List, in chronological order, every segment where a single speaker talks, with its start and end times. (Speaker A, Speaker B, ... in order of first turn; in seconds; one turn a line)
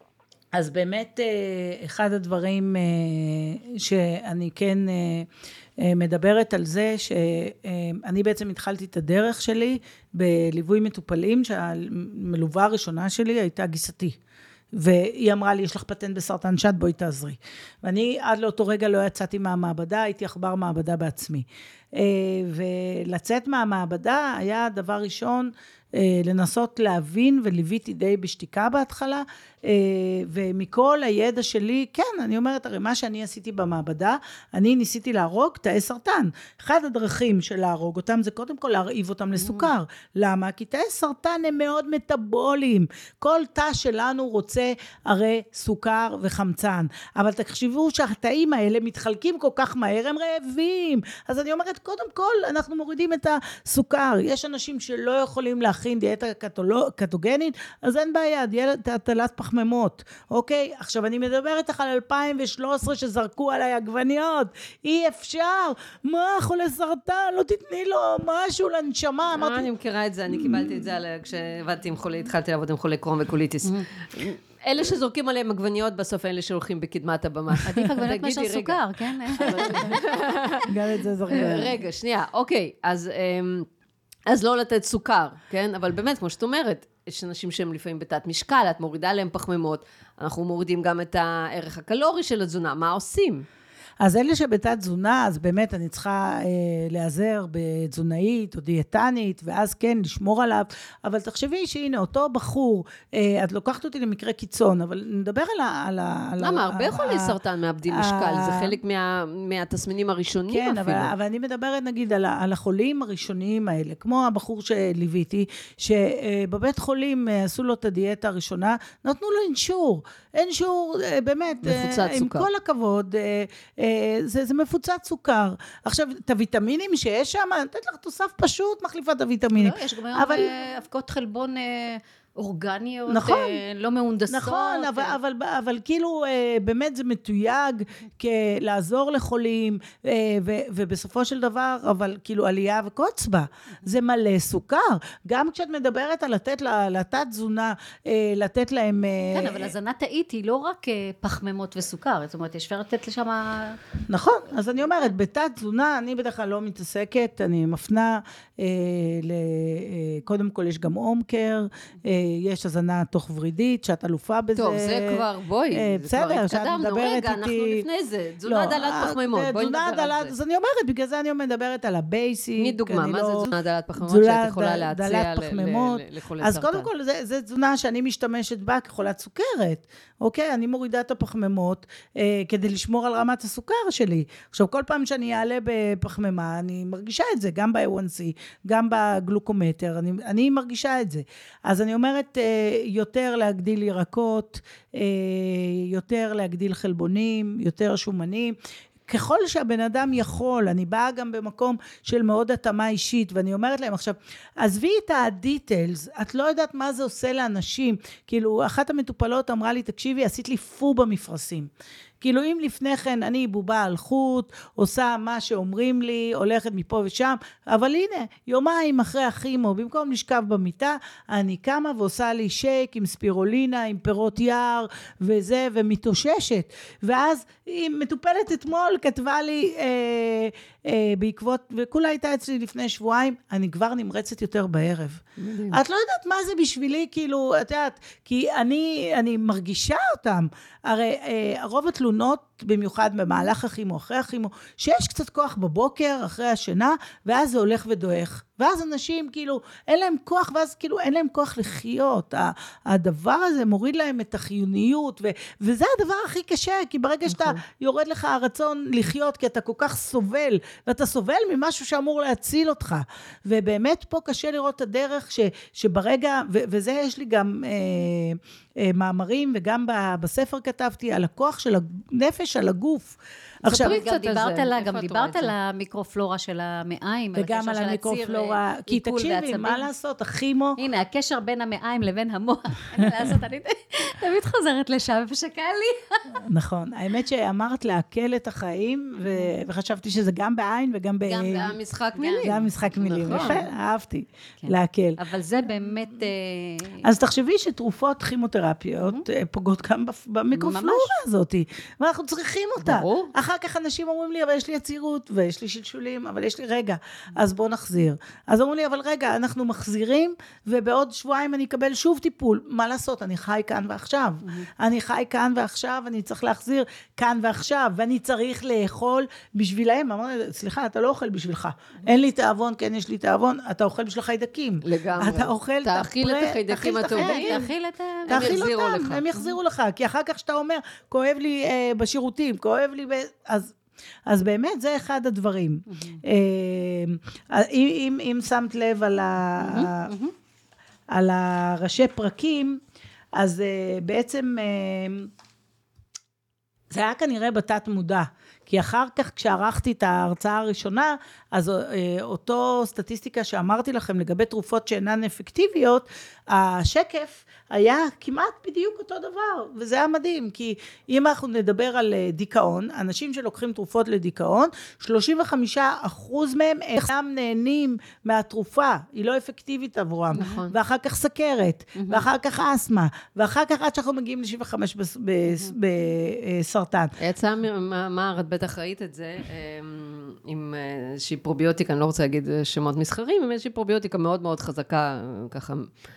Speaker A: 0.5-5.3
Speaker A: 5.8-14.2
Speaker A: 14.8-69.7
Speaker B: 39.4-39.7
Speaker C: 69.3-78.8
Speaker A: 70.3-70.9
Speaker B: 77.7-80.0
Speaker C: 79.3-80.7
Speaker A: 80.7-81.8
Speaker C: 81.3-83.7
Speaker C: 84.3-93.5
Speaker A: 94.0-108.8
Speaker C: 106.4-111.1
Speaker A: 110.5-130.5
Speaker C: 121.6-122.5
Speaker B: 129.6-135.2
Speaker A: 133.1-133.6
Speaker A: 134.3-149.7
Speaker B: 149.3-153.8
Speaker A: 154.1-167.9
Speaker C: 164.6-170.3
Speaker A: 168.4-173.5
Speaker C: 172.6-176.9
Speaker A: 174.0-198.6
Speaker A: 199.1-211.7
Speaker A: 212.2-273.1
Speaker C: 235.4-235.8
Speaker C: 257.3-257.6
Speaker B: 273.6-279.9
Speaker A: 273.7-273.9
Speaker C: 273.7-275.5
Speaker A: 277.4-280.8
Speaker B: 280.8-286.4
Speaker A: 286.4-291.7
Speaker B: 291.3-292.7
Speaker C: 291.5-293.6
Speaker A: 292.4-295.2
Speaker B: 293.2-293.7
Speaker B: 294.6-297.1
Speaker A: 297.0-327.7
Speaker B: 300.5-301.1
Speaker C: 302.8-303.3
Speaker C: 324.8-327.6
Speaker B: 327.1-328.7
Speaker C: 328.2-329.2
Speaker A: 328.3-333.7
Speaker A: 334.3-340.1
Speaker B: 335.9-336.2
Speaker B: 339.6-340.3
Speaker A: 341.1-342.8
Speaker A: 343.4-345.3
Speaker A: 346.9-377.1
Speaker C: 370.3-370.7
Speaker B: 370.4-370.6
Speaker B: 372.0-372.2
Speaker C: 377.2-385.9